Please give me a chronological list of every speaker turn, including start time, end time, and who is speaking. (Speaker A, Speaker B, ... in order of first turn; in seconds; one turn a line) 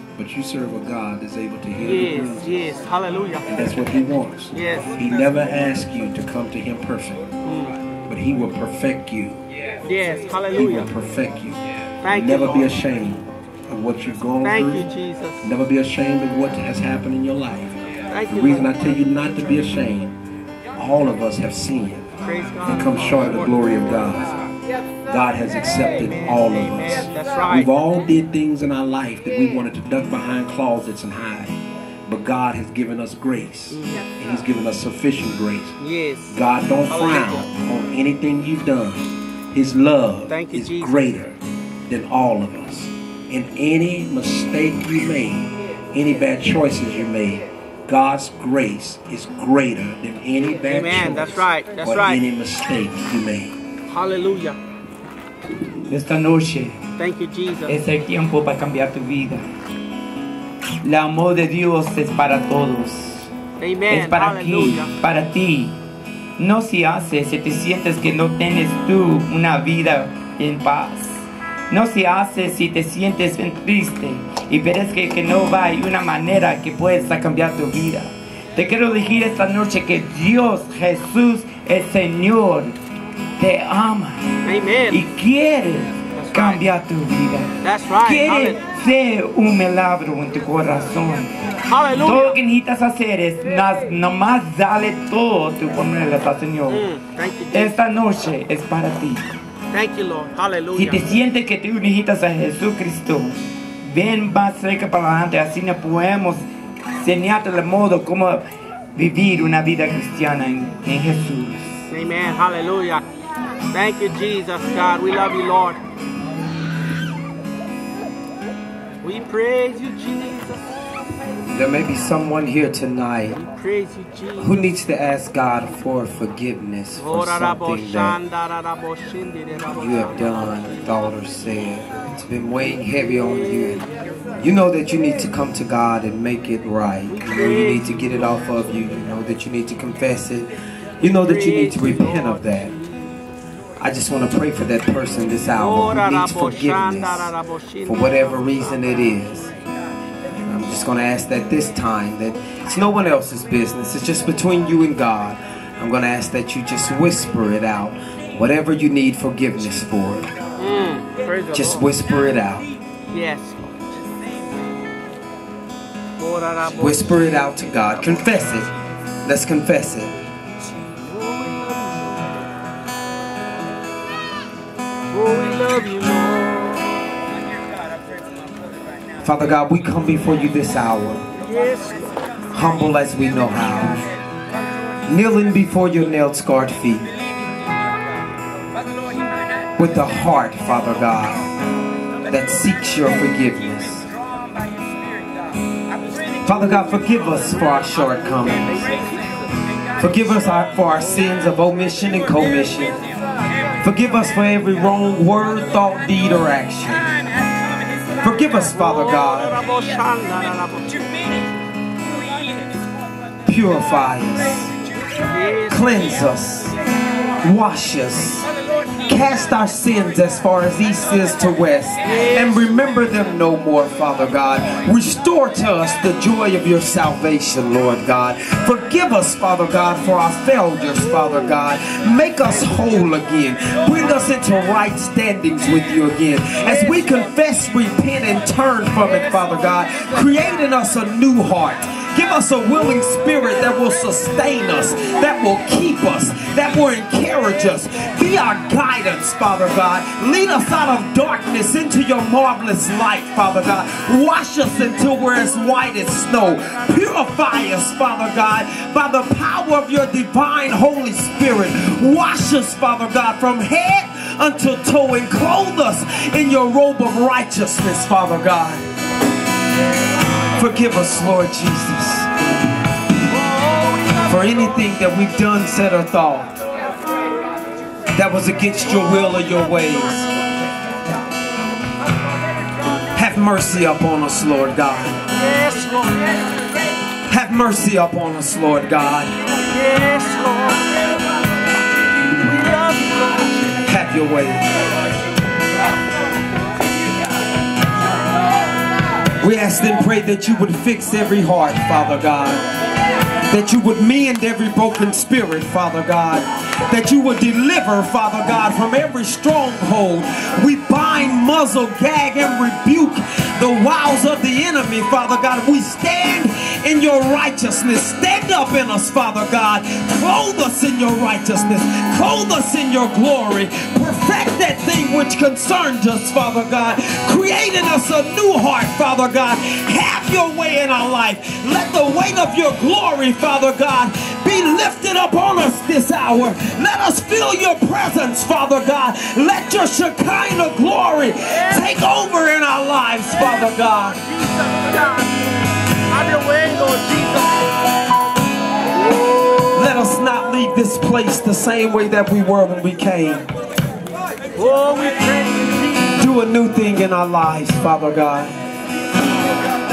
Speaker A: 0.2-2.6
Speaker B: 1.8-3.5
Speaker A: 3.5-7.3
Speaker B: 4.5-4.9
Speaker B: 7.5-7.8
Speaker A: 8.1-9.4
Speaker B: 9.8-10.9
Speaker A: 10.6-14.9
Speaker B: 12.0-12.8
Speaker B: 14.4-15.5
Speaker A: 15.4-17.8
Speaker B: 18.1-18.8
Speaker A: 18.3-20.2
Speaker A: 20.8-22.1
Speaker B: 22.2-23.9
Speaker A: 22.6-24.4
Speaker A: 25.1-35.8
Speaker B: 26.0-27.7
Speaker B: 33.7-34.0
Speaker B: 35.8-36.4
Speaker A: 36.3-53.6
Speaker B: 36.9-37.5
Speaker B: 40.3-41.1
Speaker B: 50.6-52.2
Speaker B: 53.9-54.6
Speaker C: 55.9-56.8
Speaker B: 57.0-57.8
Speaker C: 57.7-59.4
Speaker C: 60.8-63.3
Speaker B: 63.6-64.9
Speaker C: 63.9-65.8
Speaker C: 66.4-82.8
Speaker C: 83.4-84.3
Speaker B: 84.5-85.0
Speaker C: 84.9-87.5
Speaker B: 86.2-86.7
Speaker B: 87.6-88.6
Speaker C: 88.0-91.3
Speaker B: 91.7-92.4
Speaker C: 92.0-96.9
Speaker B: 96.7-97.8
Speaker C: 97.5-99.2
Speaker B: 99.7-101.0
Speaker C: 100.8-106.4
Speaker C: 107.0-111.8
Speaker B: 111.9-113.0
Speaker B: 113.7-115.8
Speaker B: 119.0-120.7
Speaker D: 121.5-123.4
Speaker B: 123.3-124.8
Speaker D: 124.4-128.2
Speaker B: 127.0-130.7
Speaker D: 129.7-133.8
Speaker B: 133.1-133.9
Speaker D: 134.4-142.7
Speaker B: 137.1-137.9
Speaker B: 141.0-143.1
Speaker D: 143.8-147.3
Speaker B: 145.6-148.3
Speaker D: 147.9-149.5
Speaker D: 150.4-160.3
Speaker B: 160.6-161.9
Speaker D: 161.5-162.7
Speaker B: 163.1-163.9
Speaker B: 166.2-168.1
Speaker D: 166.7-168.7
Speaker D: 169.2-170.2
Speaker B: 171.0-172.2
Speaker B: 175.1-177.0
Speaker D: 179.2-181.2
Speaker B: 181.4-182.0
Speaker D: 182.5-184.0
Speaker D: 185.1-187.1
Speaker D: 189.8-191.5
Speaker D: 192.3-194.1
Speaker D: 196.4-198.8
Speaker B: 198.1-199.5
Speaker D: 200.0-203.0
Speaker D: 203.8-207.1
Speaker D: 208.2-209.5
Speaker B: 208.8-211.1
Speaker D: 213.4-214.7
Speaker B: 215.3-216.0
Speaker D: 215.7-216.8
Speaker D: 217.4-218.5
Speaker D: 219.1-268.9
Speaker B: 222.0-222.6
Speaker B: 236.6-236.9
Speaker D: 270.6-272.3
Speaker D: 274.3-276.6
Speaker D: 278.1-280.3
Speaker D: 283.1-285.2
Speaker B: 285.3-286.5
Speaker D: 287.3-289.3
Speaker B: 289.6-290.9
Speaker B: 292.4-293.8
Speaker D: 293.9-294.7
Speaker D: 299.4-302.6
Speaker D: 303.5-344.2
Speaker B: 341.5-342.0
Speaker B: 343.4-345.4
Speaker B: 346.1-347.7
Speaker D: 349.7-353.5
Speaker B: 354.6-356.2
Speaker D: 356.2-358.6